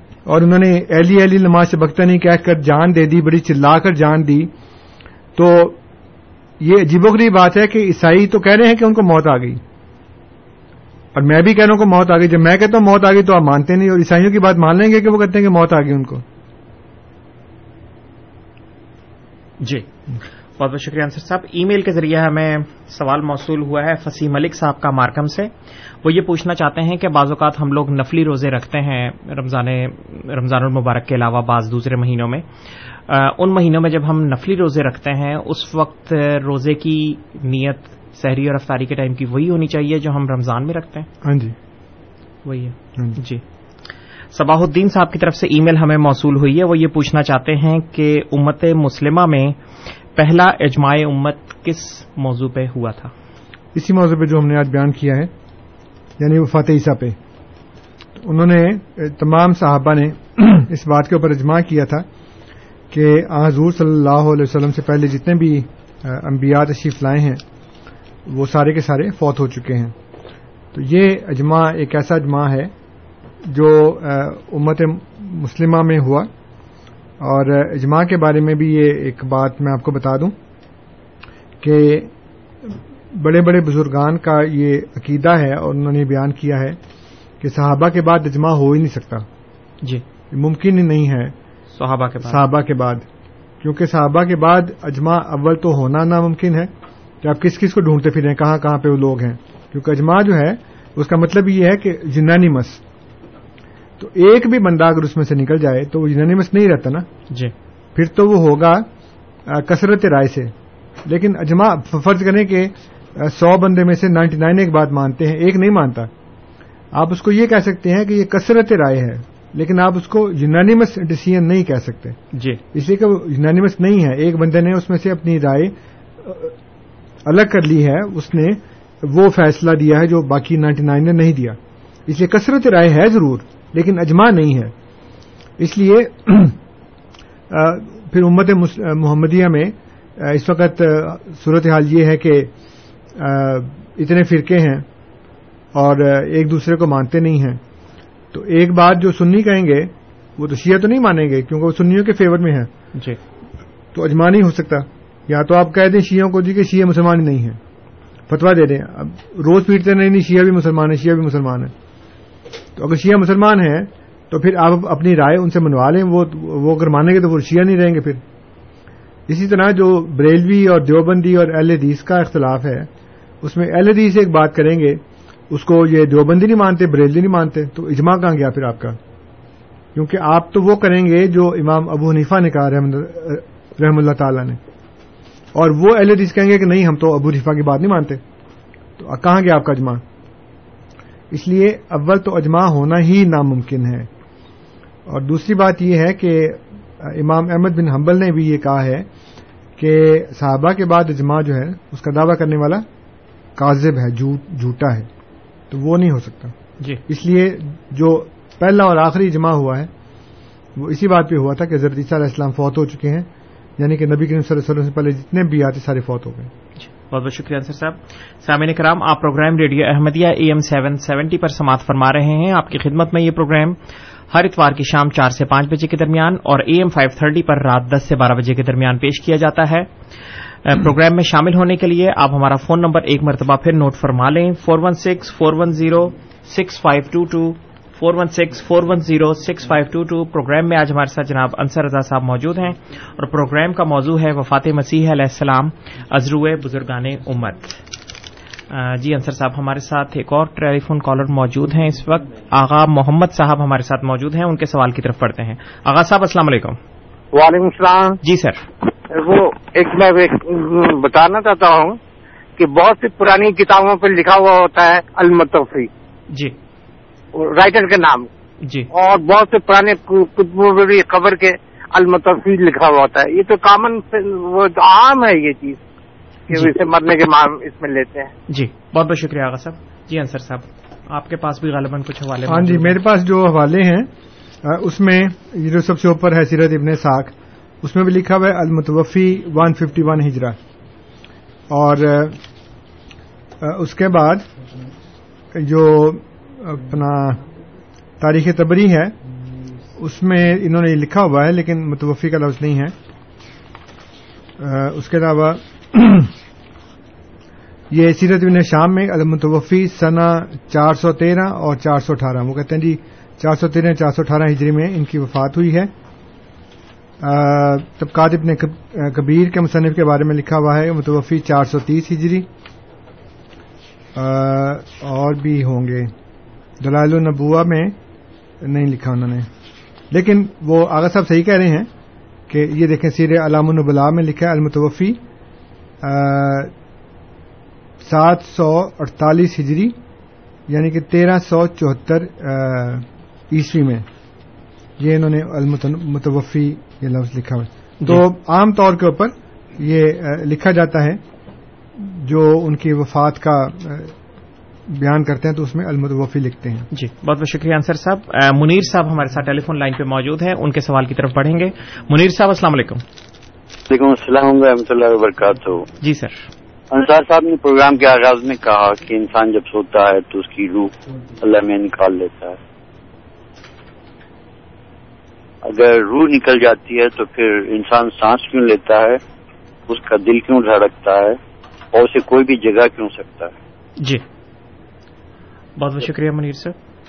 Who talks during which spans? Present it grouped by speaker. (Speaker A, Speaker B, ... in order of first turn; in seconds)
Speaker A: 0.2-4.5, 5.3-5.8, 6.6-9.6, 11.1-16.2, 41.2-41.5, 53.7-55.3, 56.2-57.1, 58.2-62.0, 62.9-67.4, 68.2-69.9, 70.7-72.7, 73.4-76.3, 77.2-80.3, 81.6-82.1, 82.6-86.8, 87.4-89.3, 90.3-91.3, 92.2-93.0, 93.6-96.7, 97.2-102.8, 104.0-107.1, 107.9-108.8, 109.5-110.5, 111.0-116.1, 116.9-122.2, 122.7-126.5, 127.2-134.7, 135.6-136.6, 137.5-142.5, 143.1-144.8, 145.7-147.6, 148.3-152.7, 153.9-157.6, 158.3-161.7, 162.8-168.2, 169.3-172.9, 173.4-179.0, 179.9-184.6, 185.5-188.2, 189.0-190.0, 191.3-194.1, 195.1-199.1, 199.8-202.8, 203.6-205.1, 205.7-206.5, 207.1-209.9, 210.8-216.5, 282.4-284.1, 284.6-290.6, 291.7-292.4, 293.6-294.5, 295.5-297.4, 298.2-299.2, 300.0-302.9, 304.6-306.3, 307.9-315.9, 317.2-322.5, 324.1-326.1, 326.8-327.9, 328.6-329.5, 330.1-331.9, 332.5-335.2, 336.0-336.7, 338.0-340.0, 340.7-344.1, 345.0-351.2, 351.9-354.1, 354.9-356.9
Speaker B: 19.6-19.9, 20.6-25.5, 26.0-32.4, 33.1-41.1, 42.4-43.4, 44.3-49.6, 50.1-53.1, 91.7-92.4, 122.3-122.6, 216.8-223.8, 224.3-229.9, 230.6-247.8, 248.7-256.8, 258.2-258.6, 268.6-268.9, 278.5-283.0, 356.9-363.0, 366.0-366.4, 385.8-386.8
Speaker C: 257.3-258.2, 259.1-262.0, 262.6-265.9, 267.3-268.3, 268.9-275.8, 276.5-278.3
Speaker D: 363.9-365.9, 366.9-372.6, 375.6-379.2, 379.9-381.4, 381.9-383.5